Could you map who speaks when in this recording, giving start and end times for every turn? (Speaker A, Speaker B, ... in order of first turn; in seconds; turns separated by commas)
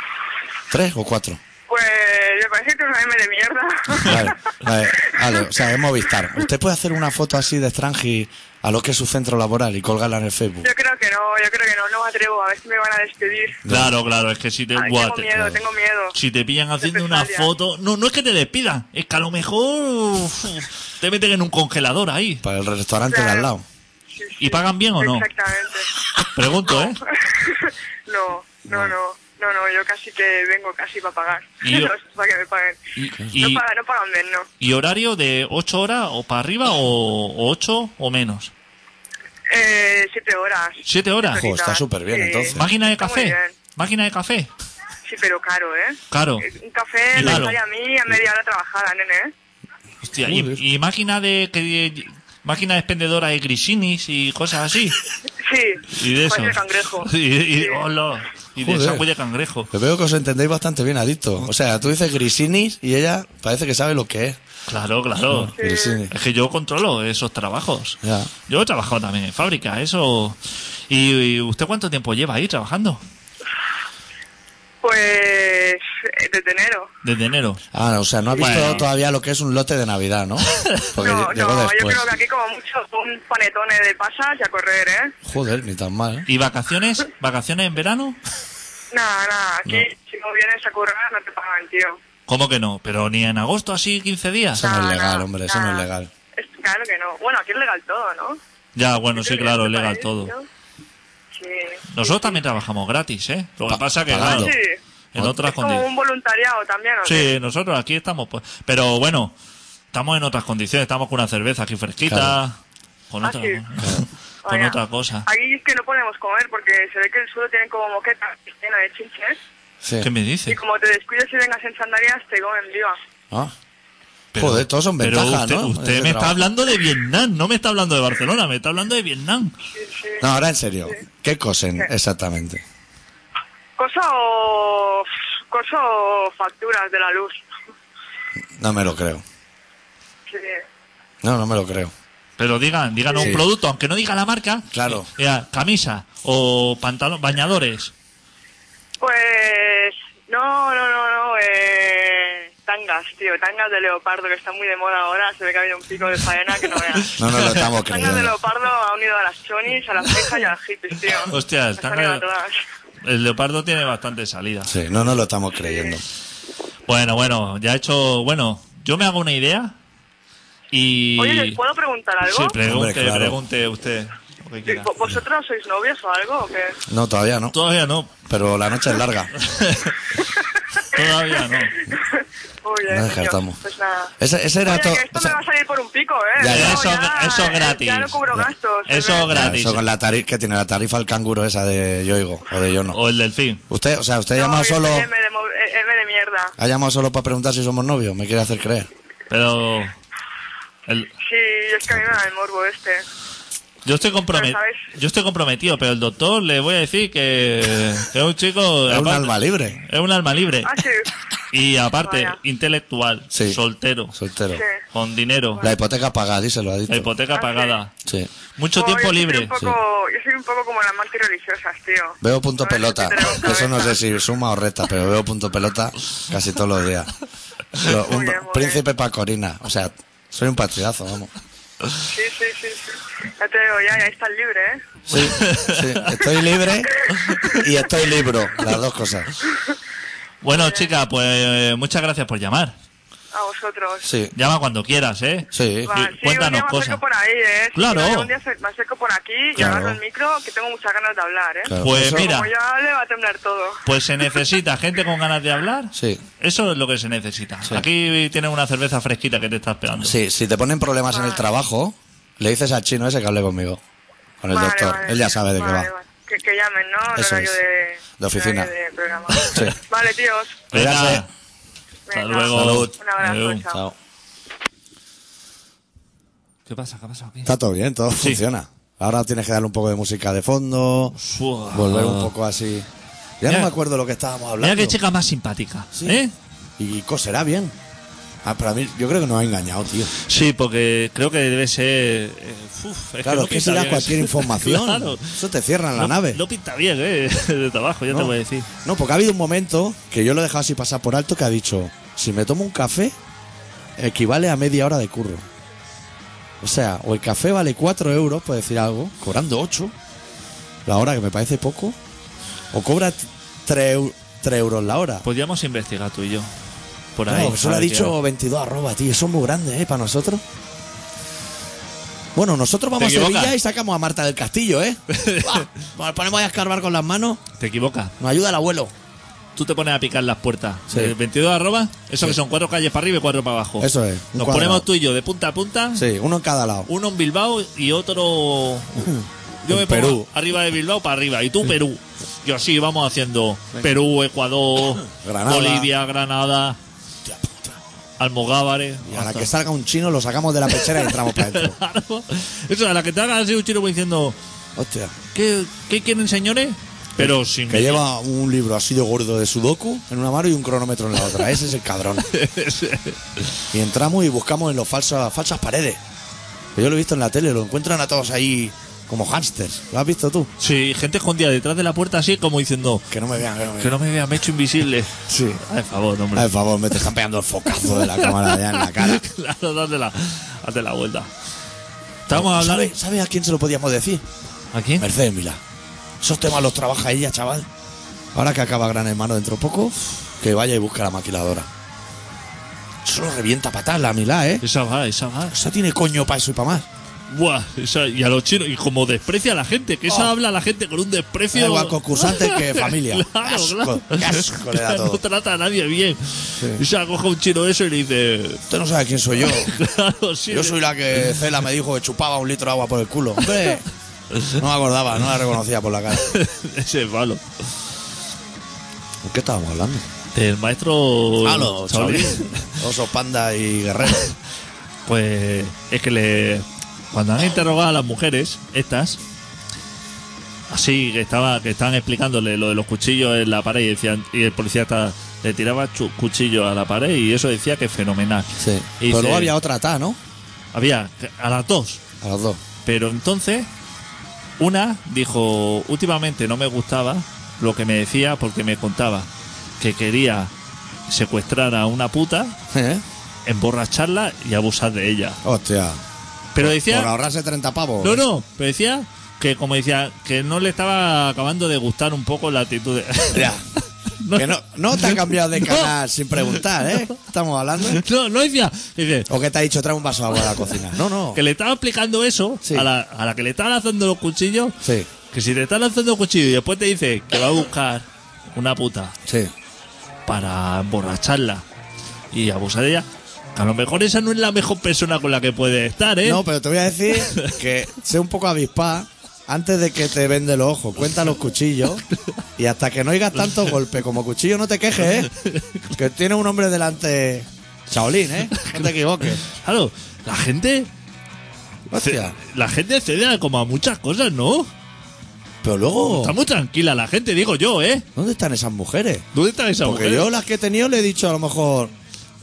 Speaker A: 0.7-1.4, Speaker B: 1.7-4.3, Speaker A: 4.0-10.7, Speaker B: 5.1-5.5, Speaker B: 10.6-13.6, Speaker A: 13.6-13.9, Speaker C: 13.7-15.6, Speaker B: 14.8-16.1, Speaker C: 16.1-22.4, Speaker B: 16.8-17.5, Speaker A: 22.4-23.6, Speaker B: 23.1-23.5, Speaker B: 24.1-25.9, Speaker C: 24.4-25.3, Speaker C: 26.2-27.0, Speaker B: 26.7-32.8, Speaker A: 28.7-28.9, Speaker C: 31.6-31.9, Speaker A: 33.0-33.3, Speaker C: 33.3-33.6, Speaker B: 33.3-34.5, Speaker C: 34.6-38.5, Speaker B: 39.5-43.5, Speaker C: 40.8-41.5, Speaker A: 41.3-42.7, Speaker C: 42.5-44.5, Speaker B: 45.0-49.3, Speaker C: 46.1-46.5, Speaker C: 47.1-47.6, Speaker A: 47.2-47.5, Speaker C: 50.0-55.0, Speaker A: 50.2-50.6, Speaker B: 55.4-57.8, Speaker C: 55.9-59.7, Speaker A: 58.6-59.0, Speaker A: 59.7-64.4, Speaker C: 64.7-65.5, Speaker A: 65.3-66.1, Speaker B: 65.5-66.0, Speaker C: 66.1-73.0, Speaker A: 68.0-68.3, Speaker B: 74.8-76.9, Speaker C: 77.0-77.6, Speaker A: 77.7-82.0, Speaker C: 78.4-78.8, Speaker C: 80.5-80.9, Speaker B: 81.0-85.1, Speaker A: 85.2-86.3, Speaker C: 86.3-88.2, Speaker B: 88.9-92.0, Speaker C: 92.3-94.6, Speaker A: 94.5-96.1, Speaker B: 94.6-98.4, Speaker C: 98.8-100.3, Speaker B: 99.2-100.5, Speaker B: 101.3-102.4, Speaker C: 101.9-104.5, Speaker A: 103.7-104.5, Speaker B: 104.2-104.8, Speaker C: 105.2-105.8, Speaker B: 105.4-107.3, Speaker C: 107.0-109.3, Speaker C: 109.9-112.6, Speaker A: 112.1-112.4, Speaker C: 113.1-115.2, Speaker B: 113.2-113.6, Speaker B: 114.5-119.4, Speaker A: 119.8-120.1, Speaker C: 120.0-120.6, Speaker B: 120.5-123.0, Speaker C: 124.3-129.5, Speaker A: 124.3-126.4, Speaker B: 129.8-130.2, Speaker A: 130.2-132.6, Speaker B: 133.8-137.4, Speaker A: 138.6-139.2, Speaker B: 140.3-140.6, Speaker A: 141.2-141.9, Speaker C: 142.4-147.9, Speaker A: 144.7-145.1, Speaker B: 149.0-162.6, Speaker A: 157.2-158.3, Speaker C: 157.3-157.7, Speaker C: 161.2-162.2, Speaker C: 163.0-164.9, Speaker A: 164.7-166.0, Speaker B: 165.6-166.0, Speaker C: 166.9-169.8, Speaker C: 170.7-171.6, Speaker B: 171.2-172.6, Speaker C: 172.2-174.9, Speaker A: 172.6-173.4, Speaker B: 174.7-176.8, Speaker A: 176.9-177.6, Speaker C: 177.5-178.1, Speaker A: 178.2-179.3, Speaker C: 179.4-180.0, Speaker B: 180.8-184.1, Speaker C: 180.9-181.8, Speaker A: 182.9-183.6, Speaker A: 184.2-185.4, Speaker B: 184.7-189.4, Speaker A: 186.4-186.9, Speaker C: 186.4-188.2, Speaker C: 188.9-189.8, Speaker A: 189.2-193.0, Speaker C: 192.9-193.6, Speaker A: 193.7-195.1, Speaker B: 194.3-196.5, Speaker A: 196.6-198.9, Speaker C: 199.3-200.0, Speaker B: 201.2-203.0, Speaker C: 203.8-210.8, Speaker B: 204.3-204.8, Speaker A: 208.9-209.8, Speaker B: 210.7-211.1, Speaker C: 211.5-214.1, Speaker B: 212.0-212.4, Speaker A: 213.3-213.6, Speaker A: 214.1-214.6, Speaker B: 214.5-214.8, Speaker C: 214.9-215.7, Speaker A: 215.6-217.1, Speaker C: 216.9-217.9, Speaker B: 217.3-217.8, Speaker A: 218.0-218.3, Speaker C: 218.6-219.5, Speaker B: 218.8-224.0, Speaker A: 222.2-227.1, Speaker A: 227.7-231.3, Speaker B: 227.9-228.8, Speaker B: 232.1-234.8, Speaker C: 235.1-236.2, Speaker A: 235.1-239.3, Speaker C: 240.4-242.8, Speaker B: 240.5-240.9, Speaker B: 243.3-244.1, Speaker A: 244.0-244.3, Speaker C: 244.3-247.0, Speaker A: 245.5-245.9, Speaker B: 245.9-253.8, Speaker C: 247.8-248.3, Speaker A: 249.6-250.0, Speaker A: 251.7-252.3, Speaker C: 251.8-252.5, Speaker C: 253.8-260.2, Speaker A: 255.9-256.2, Speaker A: 260.0-263.8, Speaker B: 261.1-261.4, Speaker A: 264.4-265.9, Speaker B: 264.5-270.6, Speaker A: 267.1-267.6, Speaker A: 268.2-268.7, Speaker C: 269.3-269.7, Speaker A: 270.7-271.2, Speaker C: 270.7-271.3, Speaker B: 272.1-273.8, Speaker C: 272.1-273.6, Speaker A: 272.5-272.9, Speaker A: 273.7-273.9, Speaker C: 276.7-277.5, Speaker A: 277.4-281.1, Speaker C: 278.2-278.4, Speaker C: 281.1-282.3, Speaker A: 281.7-282.9, Speaker A: 283.4-285.0, Speaker C: 283.5-283.7, Speaker C: 284.6-286.3, Speaker A: 285.9-286.2, Speaker A: 286.8-287.7, Speaker A: 288.4-290.1, Speaker C: 290.2-295.4, Speaker A: 293.2-296.4, Speaker C: 296.0-298.7, Speaker A: 298.1-303.1, Speaker A: 304.0-305.4, Speaker A: 306.6-309.9, Speaker A: 310.9-312.0, Speaker A: 312.7-315.2, Speaker C: 315.2-316.5, Speaker C: 317.1-318.2, Speaker A: 317.3-320.4, Speaker A: 322.3-327.4, Speaker C: 323.0-323.5, Speaker C: 325.1-325.7, Speaker C: 327.6-328.1, Speaker A: 328.2-328.9, Speaker C: 329.6-336.0, Speaker A: 333.8-334.9, Speaker A: 335.9-336.9, Speaker C: 336.9-346.8, Speaker A: 339.0-340.3, Speaker A: 345.0-345.9, Speaker A: 347.2-347.8, Speaker C: 348.2-349.5, Speaker A: 349.0-351.8, Speaker C: 350.7-354.4, Speaker A: 354.8-355.1, Speaker C: 355.3-358.0, Speaker A: 357.2-362.3, Speaker C: 362.3-363.5, Speaker A: 363.7-366.0, Speaker A: 366.8-370.5, Speaker C: 370.6-373.1, Speaker A: 373.1-374.0, Speaker C: 373.8-376.5, Speaker A: 375.2-375.6, Speaker A: 376.3-379.2, Speaker C: 377.8-381.3, Speaker C: 382.3-382.9, Speaker A: 382.3-384.2, Speaker C: 384.7-385.1, Speaker A: 385.0-385.6, Speaker A: 386.2-387.7, Speaker A: 388.3-391.7, Speaker A: 393.0-394.6, Speaker C: 394.6-395.6, Speaker A: 395.5-396.9, Speaker C: 397.3-408.6, Speaker A: 400.1-400.3, Speaker A: 401.5-405.2, Speaker A: 406.6-406.8, Speaker A: 408.7-409.8, Speaker C: 409.4-410.8, Speaker A: 410.5-413.8, Speaker A: 414.5-416.3, Speaker C: 416.2-417.4, Speaker A: 419.2-420.1, Speaker C: 420.3-422.8, Speaker A: 421.4-424.3, Speaker C: 425.1-429.2, Speaker C: 430.7-439.5, Speaker A: 438.6-440.2, Speaker C: 440.7-442.0, Speaker A: 442.2-442.6, Speaker C: 442.8-443.7, Speaker C: 444.6-450.5, Speaker C: 451.1-452.5, Speaker A: 452.7-453.0, Speaker C: 453.5-455.4, Speaker A: 455.4-456.0, Speaker C: 456.5-457.1, Speaker A: 456.5-458.2, Speaker C: 458.0-463.5, Speaker A: 463.3-463.6, Speaker C: 464.2-465.9, Speaker A: 464.3-468.0, Speaker C: 467.9-469.3, Speaker A: 469.3-471.4, Speaker C: 471.3-474.8, Speaker A: 474.8-475.1, Speaker C: 475.3-479.2, Speaker A: 479.2-479.5, Speaker C: 480.3-481.6, Speaker C: 482.3-486.4, Speaker A: 486.2-492.0, Speaker C: 487.3-487.5, Speaker A: 492.6-495.3, Speaker C: 495.4-495.9, Speaker A: 495.9-499.4, Speaker C: 498.6-498.9, Speaker C: 499.5-500.9, Speaker A: 501.9-502.3, Speaker C: 502.0-504.7, Speaker A: 505.6-506.4, Speaker C: 506.1-508.1, Speaker A: 508.2-509.3, Speaker C: 509.3-510.3, Speaker A: 509.8-511.9